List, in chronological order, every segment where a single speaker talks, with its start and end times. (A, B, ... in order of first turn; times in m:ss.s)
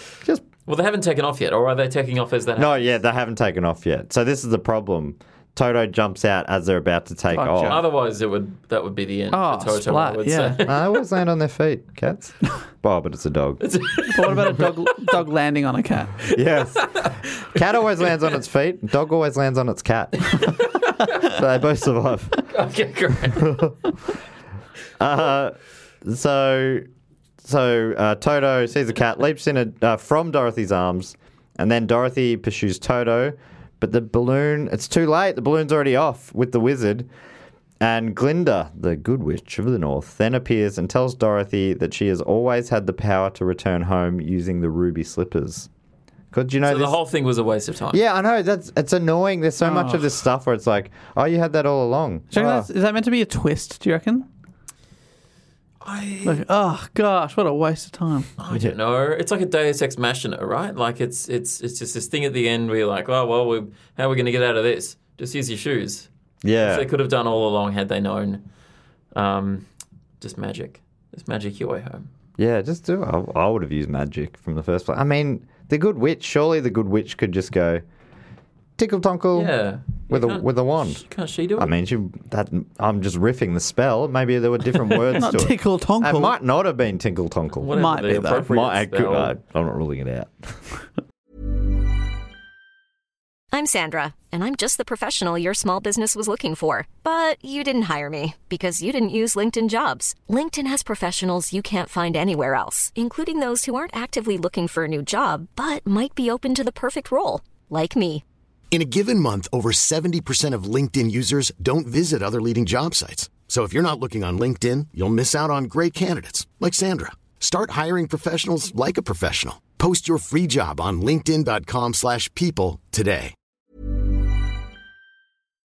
0:00.7-0:03.0 A
0:02.6-0:07.8 B
0:07.3-0:07.8 C
0:07.6-0:11.0 A
0:09.3-0:10.6 C
0:10.6-0:13.6 B
0:13.6-0:15.2 A
0:14.1-0:16.3 C
0:16.3-0:20.5 B
0:16.8-0:17.2 A
0:20.3-0:21.1 A
0:21.1-0:22.4 B
0:22.4-0:23.6 A
0:23.4-0:23.7 B
0:25.0-0:26.9 B
0:27.4-0:37.1 B
0:37.8-0:45.7 B
0:46.3-0:47.0 B
0:46.6-0:48.0 A
0:47.9-0:52.7 B
0:49.6-0:50.1 C
0:52.3-0:54.3 C
0:55.8-0:56.4 A
0:56.2-0:58.3 C
0:58.4-1:06.1 A
1:06.4-1:06.8 B
1:06.6-1:08.4 A
1:09.1-1:09.6 A
1:10.2-1:12.1 A
1:12.4-1:17.8 B
1:18.8-1:19.5 B
1:19.3-1:21.7 A
1:20.1-1:21.0 B
1:21.6-1:30.6 B
1:25.2-1:26.3 C
1:27.6-1:29.3 A
1:27.7-1:28.5 C
1:33.5-1:48.2 D
1:48.7-2:03.3 E